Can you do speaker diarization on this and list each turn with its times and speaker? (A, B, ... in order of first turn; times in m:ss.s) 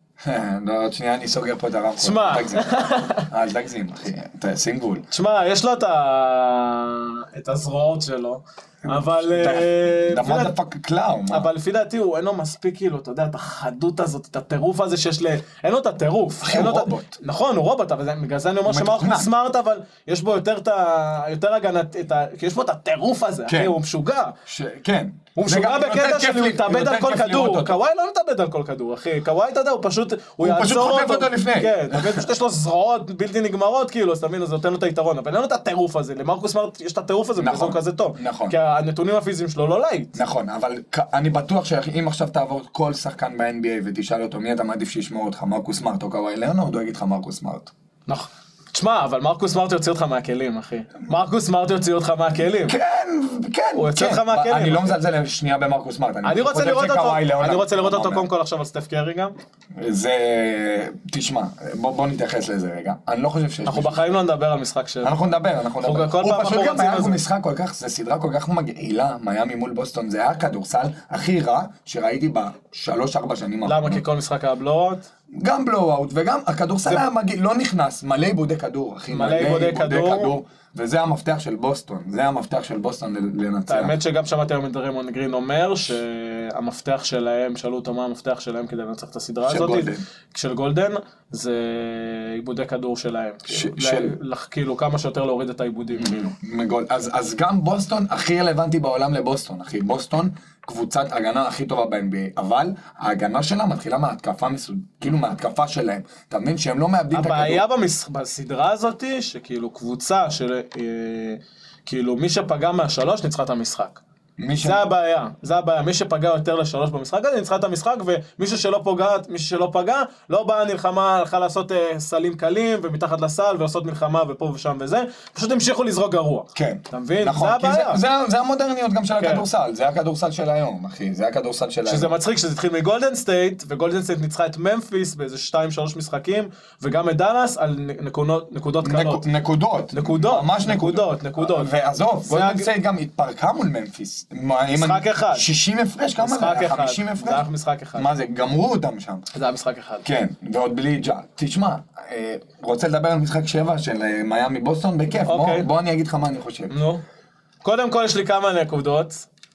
0:00.2-0:05.0 A
0:02.0-0:03.3 B
0:05.1-0:10.6 B
0:08.8-0:11.5 A
0:11.3-0:24.4 B
0:16.4-0:17.2 A
0:18.7-0:19.3 A
0:23.5-0:23.8 A
0:24.5-0:27.8 A
0:25.4-0:40.2 B
0:30.4-0:32.3 A
0:37.4-0:38.6 A
0:40.2-0:47.7 A
0:48.1-0:52.8 B
0:52.7-0:58.3 A
0:53.8-0:55.0 B
0:56.2-0:59.4 B
0:59.8-1:04.2 A
1:03.7-1:05.2 B
1:05.0-1:14.0 A
1:05.8-1:07.2 B
1:13.6-1:15.1 B
1:15.3-1:24.0 A
1:19.1-1:20.4 B
1:23.7-1:36.3 B
1:29.4-1:30.0 A
1:33.5-1:34.2 A
1:36.0-1:47.6 A
1:47.1-1:54.0 B
1:54.4-1:54.8 A
1:54.6-2:08.0 B
2:06.6-2:12.2 A
2:09.2-2:09.4 B
2:11.8-2:19.2 B
2:18.8-2:27.4 A
2:19.9-2:21.7 B
2:22.3-2:22.7 B
2:24.7-2:25.5 B
2:26.2-2:28.1 B
2:28.0-2:29.3 A
2:29.3-2:30.1 B
2:30.0-2:36.7 A
2:35.3-2:35.7 B
2:36.7-2:37.0 B
2:37.6-2:39.3 B